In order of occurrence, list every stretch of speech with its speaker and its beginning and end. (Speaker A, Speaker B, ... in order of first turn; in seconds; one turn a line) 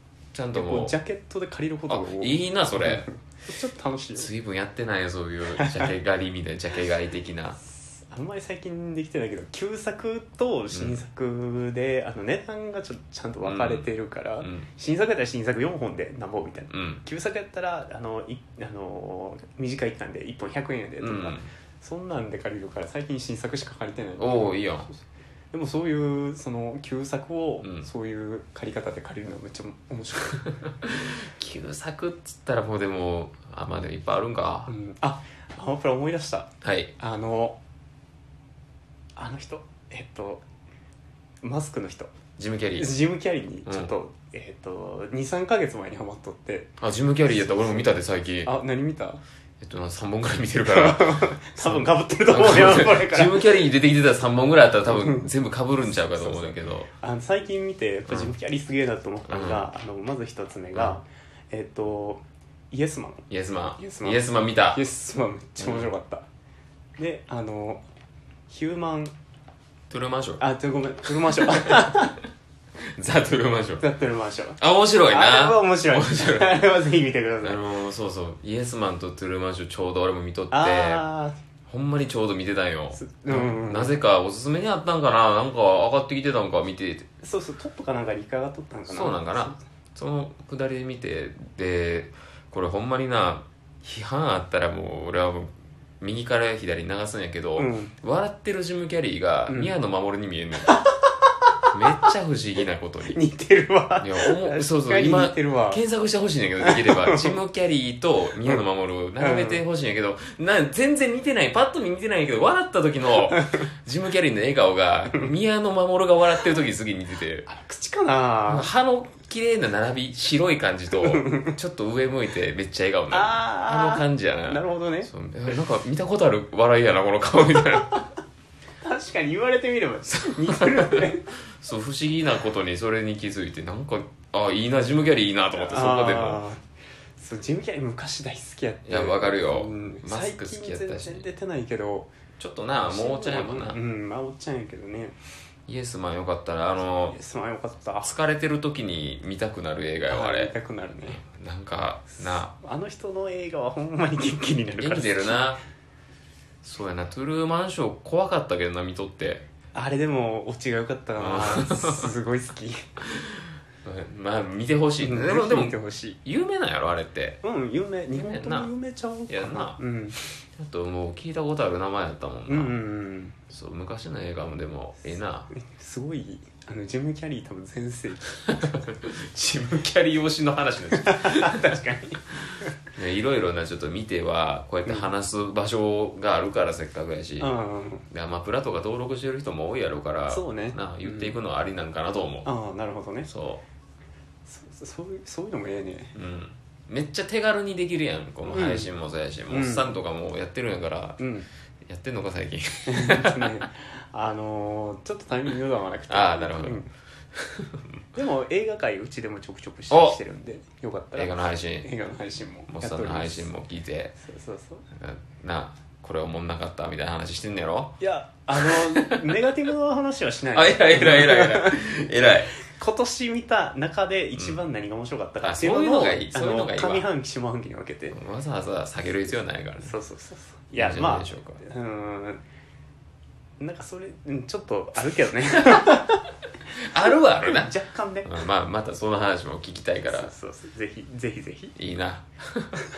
Speaker A: 0.3-1.0
Speaker B: 0.5-4.3
Speaker A: 1.9-3.1
Speaker A: 4.1-7.6
Speaker B: 5.5-5.9
Speaker B: 7.7-25.0
Speaker A: 10.7-11.0
Speaker A: 13.4-13.9
Speaker A: 14.4-14.7
Speaker A: 16.7-17.0
Speaker A: 21.0-21.5
Speaker A: 24.2-24.9
Speaker B: 25.5-30.5
Speaker A: 27.6-27.9
Speaker A: 30.5-34.7
Speaker B: 34.7-37.6
Speaker A: 36.6-36.9
Speaker B: 39.1-40.4
Speaker B: 41.4-42.1
Speaker A: 42.4-42.9
Speaker B: 42.8-49.2
Speaker A: 43.6-43.9
Speaker A: 46.8-48.5
Speaker A: 49.6-56.9
Speaker B: 50.6-53.6
Speaker B: 54.9-55.3
Speaker B: 56.1-66.2
Speaker A: 58.1-58.3
Speaker A: 59.3-59.7
Speaker A: 60.7-61.0
Speaker A: 63.3-64.8
Speaker A: 65.6-65.9
Speaker B: 67.0-67.8
Speaker B: 68.5-69.1
Speaker A: 69.9-70.4
Speaker B: 70.4-72.2
Speaker A: 71.4-72.0
Speaker A: 73.0-73.8
Speaker B: 73.8-77.6
Speaker A: 74.6-76.6
Speaker A: 77.4-81.1
Speaker B: 80.5-81.3
Speaker A: 81.7-87.1
Speaker B: 82.9-84.0
Speaker B: 87.2-89.6
Speaker A: 88.9-100.8
Speaker B: 97.6-97.9
Speaker B: 99.5-99.7
Speaker B: 100.7-101.3
Speaker A: 101.7-103.2
Speaker B: 103.1-105.8
Speaker A: 104.0-117.5
Speaker B: 106.6-107.4
Speaker B: 109.2-109.6
Speaker B: 117.5-118.7
Speaker A: 118.4-128.1
Speaker B: 121.0-121.5
Speaker B: 123.1-125.1
Speaker B: 128.8-131.3
Speaker A: 130.1-136.4
Speaker B: 135.5-136.6
Speaker B: 137.2-142.1
Speaker A: 138.8-141.3
Speaker A: 142.4-143.8
Speaker B: 142.8-145.2
Speaker A: 145.7-147.2
Speaker B: 147.1-148.1
Speaker A: 148.0-152.6
Speaker B: 150.1-151.2
Speaker B: 152.3-155.5
Speaker A: 154.8-155.6
Speaker A: 156.6-159.4
Speaker B: 159.7-162.9
Speaker A: 161.2-162.1
Speaker A: 163.1-167.4
Speaker B: 165.0-166.2
Speaker B: 167.4-170.2
Speaker A: 168.1-168.7
Speaker A: 169.3-169.8
Speaker A: 170.5-172.8
Speaker B: 172.5-173.4
Speaker A: 173.5-175.5
Speaker B: 175.5-178.3
Speaker A: 178.4-181.8
Speaker B: 180.9-182.2
Speaker A: 182.4-187.5
Speaker B: 187.4-188.1
Speaker A: 188.1-192.5
Speaker B: 190.3-191.4
Speaker B: 192.4-193.3
Speaker A: 193.2-193.6
Speaker B: 194.5-196.1
Speaker A: 196.1-201.2
Speaker B: 198.4-198.9
Speaker B: 199.5-199.9
Speaker B: 201.2-201.5
Speaker A: 201.8-203.6
Speaker B: 202.9-206.9
Speaker A: 206.1-206.8
Speaker A: 207.4-207.7
Speaker B: 208.1-213.5
Speaker A: 209.9-210.2
Speaker A: 211.1-211.9
Speaker A: 212.7-214.1
Speaker B: 214.2-214.8
Speaker A: 214.9-217.9
Speaker B: 218.0-222.0
Speaker A: 218.6-219.2
Speaker A: 220.5-222.5
Speaker B: 222.7-228.2
Speaker A: 224.3-224.6
Speaker A: 225.4-227.1
Speaker A: 228.1-230.0
Speaker B: 229.8-232.4
Speaker A: 230.8-231.6
Speaker B: 233.6-236.2
Speaker A: 236.8-237.7
Speaker B: 237.4-238.4
Speaker A: 238.2-240.3
Speaker B: 240.1-241.8
Speaker A: 241.8-242.8